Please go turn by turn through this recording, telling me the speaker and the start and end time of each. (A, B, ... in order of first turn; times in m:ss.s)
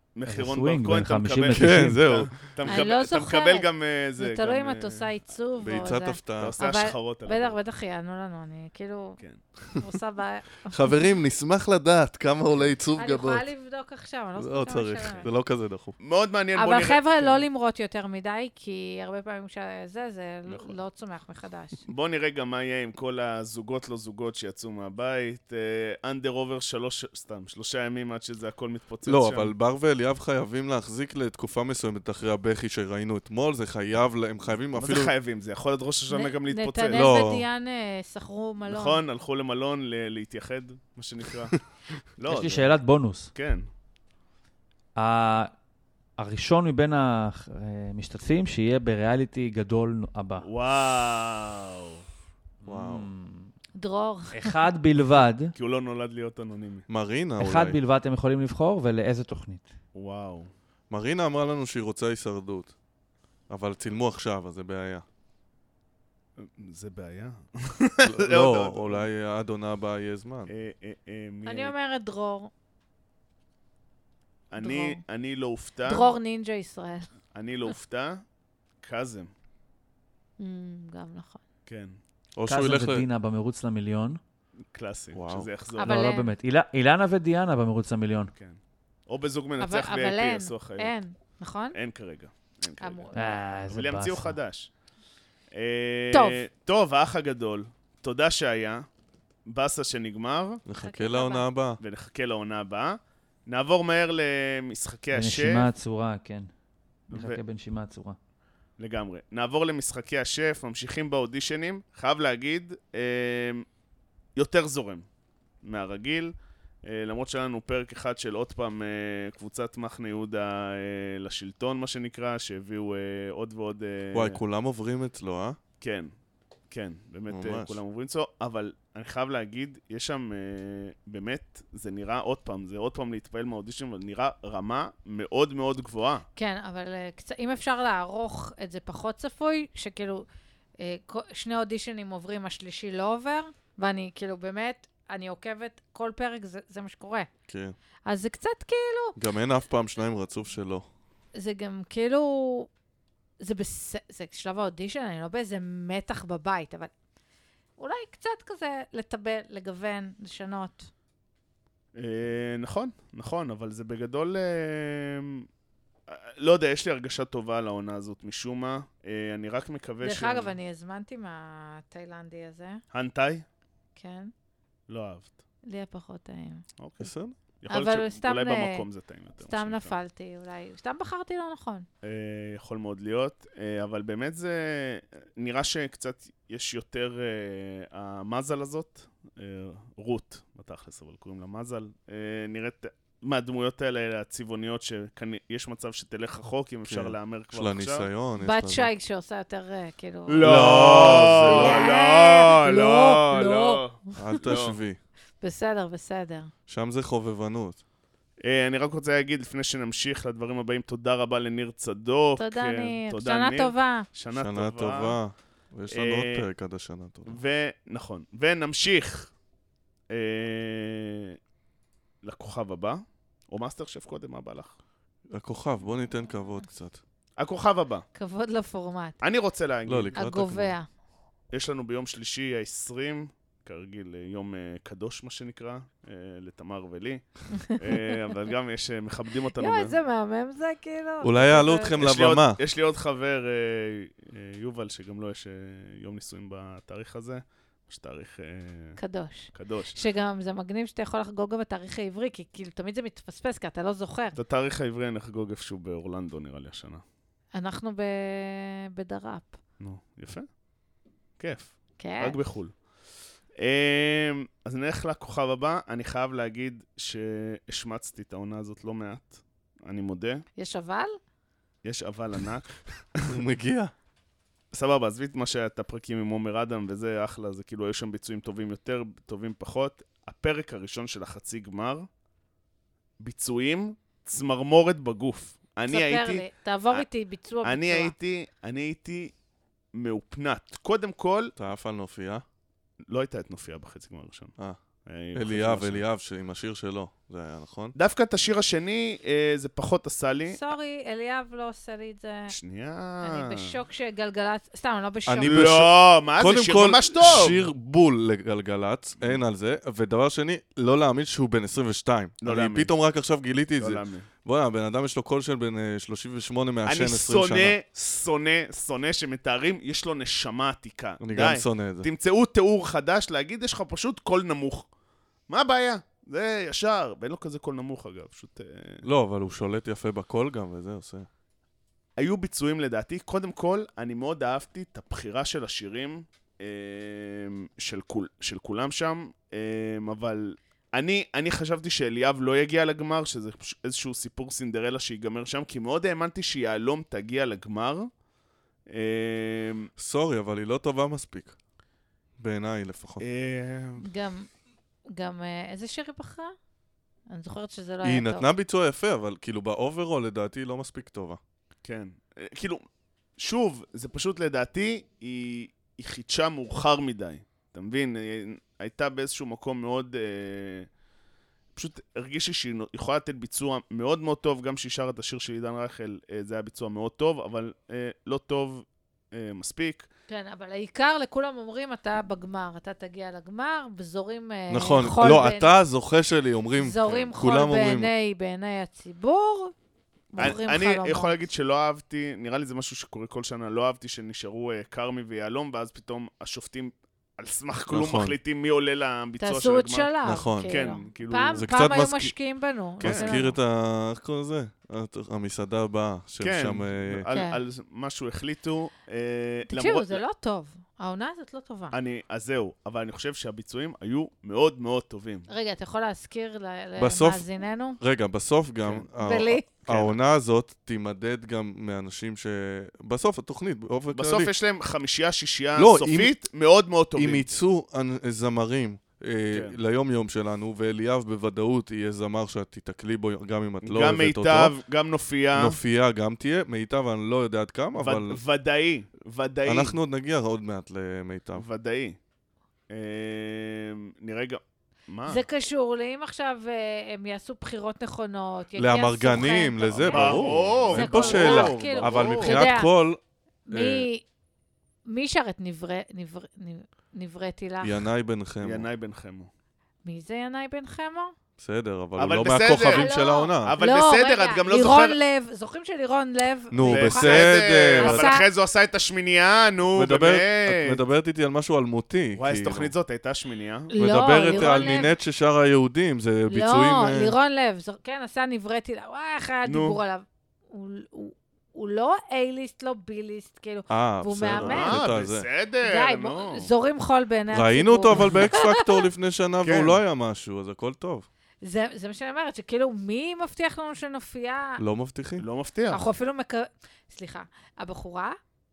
0:00.1-0:05.1 A
0:00.2-0:02.1 B
0:01.5-0:02.5 C
0:02.6-0:09.2 D
0:05.6-0:06.5 C
0:06.4-0:07.6 A
0:09.7-0:11.1 D
0:10.7-0:13.4 C
0:12.9-0:15.3 D
0:14.4-0:16.0 C
0:16.0-0:17.4 A
0:16.5-0:21.8 D
0:20.5-0:20.8 A
0:21.9-0:29.5 A
0:29.0-0:35.1 C
0:34.7-0:37.1 A
0:36.1-0:39.0 D
0:36.9-0:37.4 C
0:38.7-0:41.6 A
0:42.2-0:42.8 A
0:42.2-0:43.3 B
0:43.3-0:43.6 A
0:45.0-0:45.5 B
0:46.2-0:50.5 B
0:50.4-0:52.0 A
0:52.6-0:53.5 B
0:52.6-0:53.1 C
0:53.7-0:54.7 D
0:54.3-0:55.5 B
0:55.5-0:56.9 A
0:56.9-0:57.8 C
0:57.4-0:59.7 B
0:59.9-1:00.5 A
1:00.9-1:02.7 C
1:03.5-1:05.0 C
1:06.4-1:09.0 A
1:08.0-1:10.5 C
1:10.5-1:11.7 A
1:11.4-1:12.5 D
1:14.5-1:16.1 A
1:14.6-1:15.0 D
1:15.8-1:17.1 D
1:17.3-1:18.2 A
1:18.8-1:19.3 A
1:20.4-1:21.4 D
1:21.7-1:22.0 A
1:22.4-1:23.0 C
1:22.4-1:24.2 B
1:24.7-1:25.9 A
1:25.1-1:25.5 C
1:25.8-1:26.3 D
1:25.8-1:28.3 B
1:28.3-1:30.9 A
1:29.6-1:31.8 D
1:31.7-1:33.1 A
1:32.8-1:33.4 D
1:33.1-1:34.4 B
1:33.7-1:34.7 A
1:35.5-1:38.8 A
1:36.1-1:36.4 D
1:39.5-1:40.6 A
1:40.6-1:41.8 C
1:40.7-1:41.5 D
1:41.8-1:45.7 A
1:45.1-1:46.5 B
1:47.1-1:48.2 B
1:47.1-1:47.4 A
1:48.8-1:53.6 A
1:54.4-1:55.1 A
1:55.6-1:56.3 A
1:56.8-2:04.4 A
2:04.1-2:05.6 C
2:05.8-2:06.1 A
2:06.7-2:16.3 A
2:07.3-2:07.8 C
2:16.4-2:20.2 D
2:20.8-2:27.3 D
2:27.5-2:27.7 C
2:28.0-2:29.2 D
2:29.2-2:30.8 C
2:31.4-2:32.7 D
2:33.4-2:36.9 D
2:37.8-2:40.9 D
2:41.9-2:45.5 A
2:46.1-2:50.5 A
2:50.0-2:52.8 D
2:52.9-2:53.4 A
2:54.0-2:54.3 D
2:54.9-2:55.3 A
2:55.6-2:56.6 D
2:56.8-3:00.0 A
2:57.0-2:57.3 C
2:57.7-2:58.8 D
2:59.4-3:01.8 D
3:02.0-3:18.1 A
3:16.9-3:18.9 C
3:18.4-3:24.6 D
3:20.3-3:24.8 A
3:20.4-3:21.9 C
3:24.2-3:25.0 C
3:25.4-3:26.5 D
3:26.7-3:27.8 C
3:28.4-3:35.2 A
3:32.4-3:34.0 D
3:34.3-3:37.4 C
3:35.9-3:36.5 A
3:37.2-3:39.3 A
3:40.1-3:41.4 A
3:42.2-3:44.8 A
3:45.3-3:47.0 C
3:47.4-3:48.0 A
3:48.1-3:49.2 D
3:49.2-3:50.2 A
3:49.9-3:50.7 C
3:50.1-3:50.9 D
3:51.5-4:00.0 A
3:57.5-3:58.2 D
3:59.6-4:02.0 D
4:01.2-4:02.6 C
4:02.0-4:09.0 A
4:09.0-4:14.4 D
4:09.5-4:10.0 A
4:14.4-4:17.0 A
4:17.5-4:19.6 D
4:19.8-4:20.5 A
4:21.4-4:22.7 A
4:22.0-4:22.4 D
4:23.6-4:30.4 A
4:30.6-4:31.2 D
4:31.8-4:33.4 A
4:33.3-4:33.9 C
4:34.7-4:42.1 A
4:43.2-4:47.0 A
4:45.9-4:48.1 D
4:47.6-4:49.3 A
4:49.9-4:51.5 A
4:51.6-4:52.4 C
4:53.1-4:54.5 A
4:55.0-4:56.0 A
4:55.3-4:57.9 C
4:58.0-5:00.6 A
5:00.5-5:02.6 D
5:02.5-5:03.8 A
5:03.2-5:05.7 D
5:05.3-5:17.7 C
5:05.4-5:07.6 A
5:12.4-5:12.9 A
5:13.8-5:14.3 A
5:16.8-5:24.9 A
5:21.2-5:22.1 C
5:25.5-5:29.0 A
5:29.0-5:31.3 C
5:32.2-5:48.1 A
5:48.9-5:49.9 A
5:50.0-5:51.6 C
5:52.4-5:53.2 C
5:53.2-5:54.1 A
5:54.0-5:54.5 D
5:55.1-5:56.5 D
5:57.3-5:58.5 D
5:58.0-6:01.4 C
6:01.8-6:02.8 A
6:03.4-6:10.9 A
6:11.7-6:20.1 A
6:20.3-6:25.8 D
6:24.7-6:28.1 C
6:26.8-6:29.7 D
6:30.3-6:31.3 D
6:30.4-6:41.7 A
6:37.9-6:38.3 C
6:39.4-6:43.6 D
6:40.2-6:40.8 C
6:41.5-6:42.3 C
6:43.0-6:47.2 C
6:43.0-6:43.4 A
6:46.4-6:50.2 A
6:47.3-6:47.6 D
6:49.7-6:51.9 D
6:51.9-6:55.5 A
6:55.5-6:58.0 D
6:57.0-6:57.4 C
6:58.0-7:04.5 C
6:59.2-6:59.7 D
6:59.9-7:00.2 A
7:04.1-7:07.5 A
7:05.8-7:06.3 C
7:07.2-7:14.7 C
7:13.8-7:15.8 A
7:15.5-7:18.4 C
7:17.9-7:20.0 A
7:19.6-7:21.6 C
7:21.6-7:22.2 A
7:22.9-7:25.4 A
7:25.3-7:32.9 D
7:28.8-7:33.2 C
7:29.9-7:32.7 A
7:33.7-7:34.2 D
7:33.7-7:34.0 C
7:35.0-7:38.1 D
7:37.8-7:38.9 C
7:38.6-7:39.5 A
7:40.0-7:41.3 D
7:41.6-7:43.7 C
7:42.2-7:43.1 A
7:42.8-7:48.4 D
7:43.6-7:45.2 A
7:46.7-7:48.3 C
7:46.8-7:51.0 A
7:49.9-7:52.9 C
7:52.4-7:53.9 A
7:53.9-7:55.1 D
7:54.0-7:57.3 C
7:54.4-7:55.0 A
7:56.5-8:05.1 D
7:59.6-8:00.0 A
8:03.9-8:05.4 C
8:04.4-8:06.7 A
8:05.8-8:09.1 D
8:07.5-8:11.3 C
8:08.1-8:08.4 A
8:09.6-8:10.0 A
8:11.6-8:14.8 D
8:14.8-8:15.4 C
8:15.4-8:16.0 A
8:15.9-8:18.4 D